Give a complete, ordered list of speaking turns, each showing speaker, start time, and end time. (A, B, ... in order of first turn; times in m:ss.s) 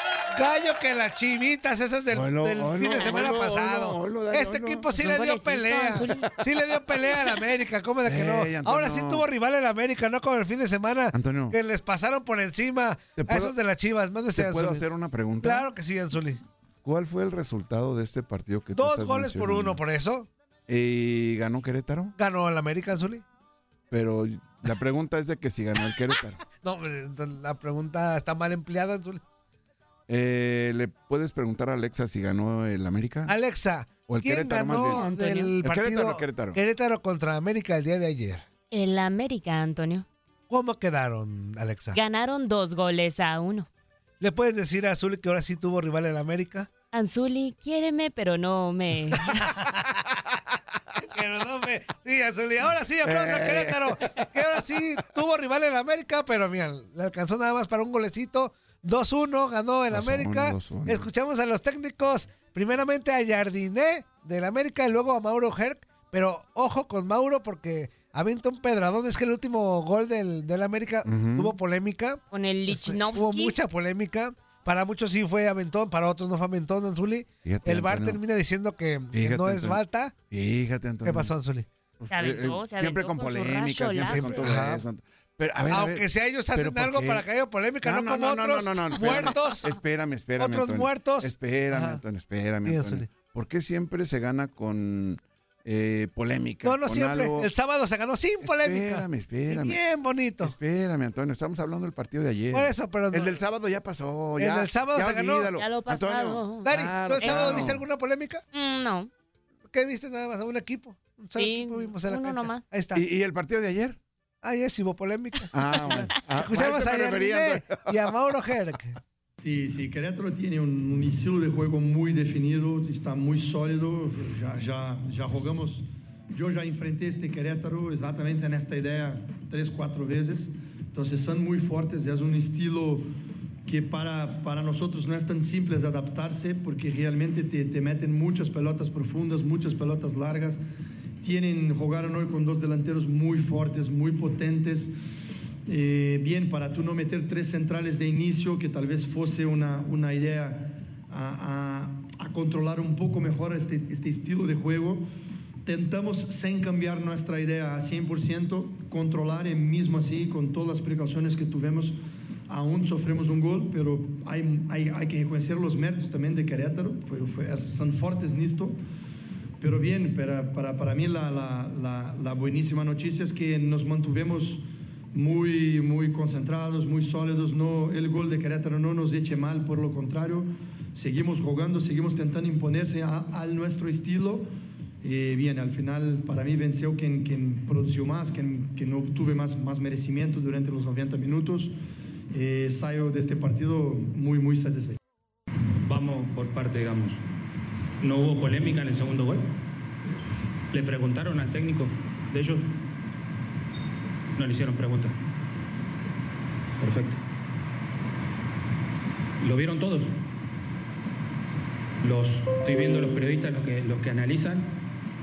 0:00.3-0:14.8 A
0:02.1-0:04.9 B
0:05.0-0:06.4 C
0:08.0-0:09.3 B
0:11.1-0:11.6 B
0:13.2-0:13.6 B
0:14.4-0:15.7 B
0:15.4-0:16.4 A
0:16.8-0:19.8 B
0:18.8-0:20.3 A
0:20.7-0:22.1 B
0:22.2-0:23.2 A
0:23.9-0:26.4 B
0:26.6-0:29.2 A
0:30.1-0:33.3 B
0:33.3-0:38.5 A
0:34.1-0:35.0 B
0:34.8-0:35.5 C
0:35.6-0:36.6 B
0:38.7-0:40.1 C
0:40.5-0:42.0 A
0:42.0-0:43.7 C
0:44.2-0:46.7 A
0:46.9-0:49.4 C
0:49.3-0:50.0 A
0:51.0-1:20.1 A
0:53.0-0:54.3 B
0:59.9-1:01.1 B
1:11.0-1:11.6 B
1:12.3-1:13.6 C
1:17.4-1:18.2 B
1:19.1-1:21.3 B
1:21.0-1:21.7 A
1:22.0-1:27.3 B
1:22.1-1:24.5 C
1:24.1-1:24.8 A
1:25.7-1:29.7 A
1:27.8-1:37.5 B
1:30.4-1:32.0 A
1:32.6-1:33.1 A
1:36.6-1:40.6 A
1:38.4-1:39.8 B
1:40.4-1:47.8 B
1:42.5-1:43.4 A
1:44.4-1:45.5 A
1:45.6-1:46.7 C
1:46.6-1:48.4 A
1:47.2-1:47.7 C
1:48.5-1:49.1 C
1:49.7-1:53.0 A
1:51.4-1:52.6 C
1:52.9-1:54.0 B
1:54.4-1:59.0 A
1:55.5-1:58.0 B
1:59.4-2:13.1 D
2:13.6-2:20.6 D
2:21.2-2:24.9 D
2:25.7-2:35.0 D
2:35.6-2:42.0 D
2:42.5-2:48.8 D
2:49.6-3:04.5 D
3:05.0-3:11.7 D
3:12.3-3:15.0 D
3:15.8-3:17.2 E
3:18.0-3:19.5 E
3:20.7-3:22.7 E
3:24.4-3:25.2 E
3:26.8-3:27.2 E
3:29.4-3:30.2 E
3:32.0-3:34.7 E